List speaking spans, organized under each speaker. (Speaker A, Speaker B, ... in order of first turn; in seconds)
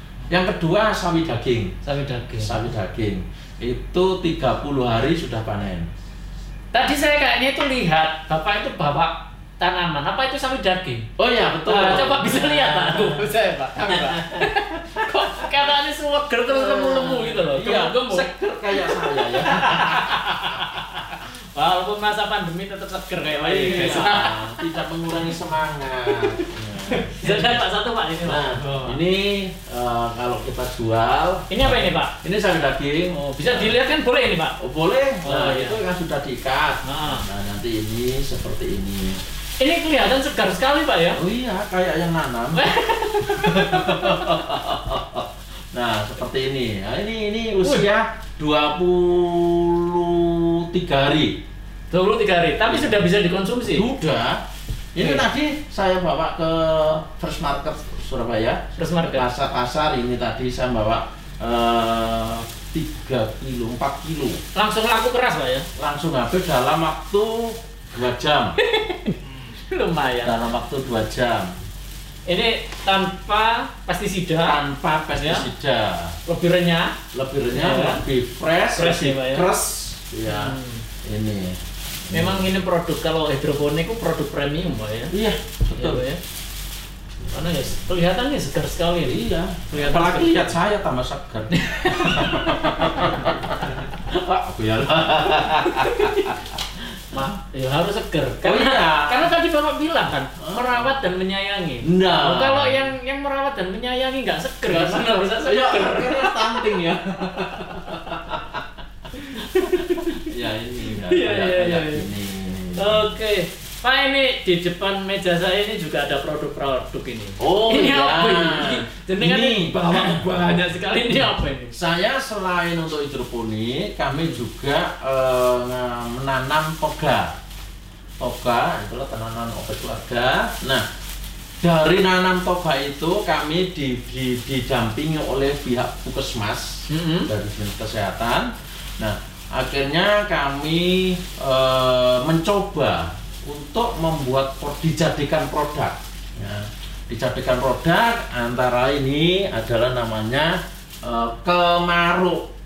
Speaker A: 0.3-1.7, 2.4-5.9, 11.2-13.2, 13.9-15.5, 16.5-21.1, 23.3-27.6, 28.2-33.7, 34.6-39.2, 41.2-42.7, 43.3-51.4, 52.7-52.9, 53.7-54.4, 54.9-64.4, 65.8-68.6, 70.2-71.6, 74.4-76.2, 77.1-82.5, 85.1-86.0, 89.0-96.5, 98.4-99.3, 100.4-101.0, 101.8-102.9, 104.7-108.6, 109.3-113.1, 117.4-120.2, 121.7-127.3, 128.2-130.8, 131.6-152.5
Speaker B: 1.8-2.7, 6.7-11.1, 11.7-24.7, 27.1-29.0, 31.5-32.1, 33.2-34.6, 35.2-35.8, 36.9-37.3, 39.6-41.2, 42.5-44.4, 47.6-47.9, 51.9-53.9, 55.0-55.2, 58.8-59.3, 64.5-65.7, 68.6-70.4, 72.3-74.6, 75.2-75.5, 76.3-77.0, 77.5-78.0, 78.8-79.5, 80.3-80.8, 82.1-85.1, 85.8-86.2, 87.3-90.6, 91.5-93.3, 95.7-96.3, 97.1-106.8, 109.3-110.3, 110.9-112.1, 112.8-121.8, 136.9-137.3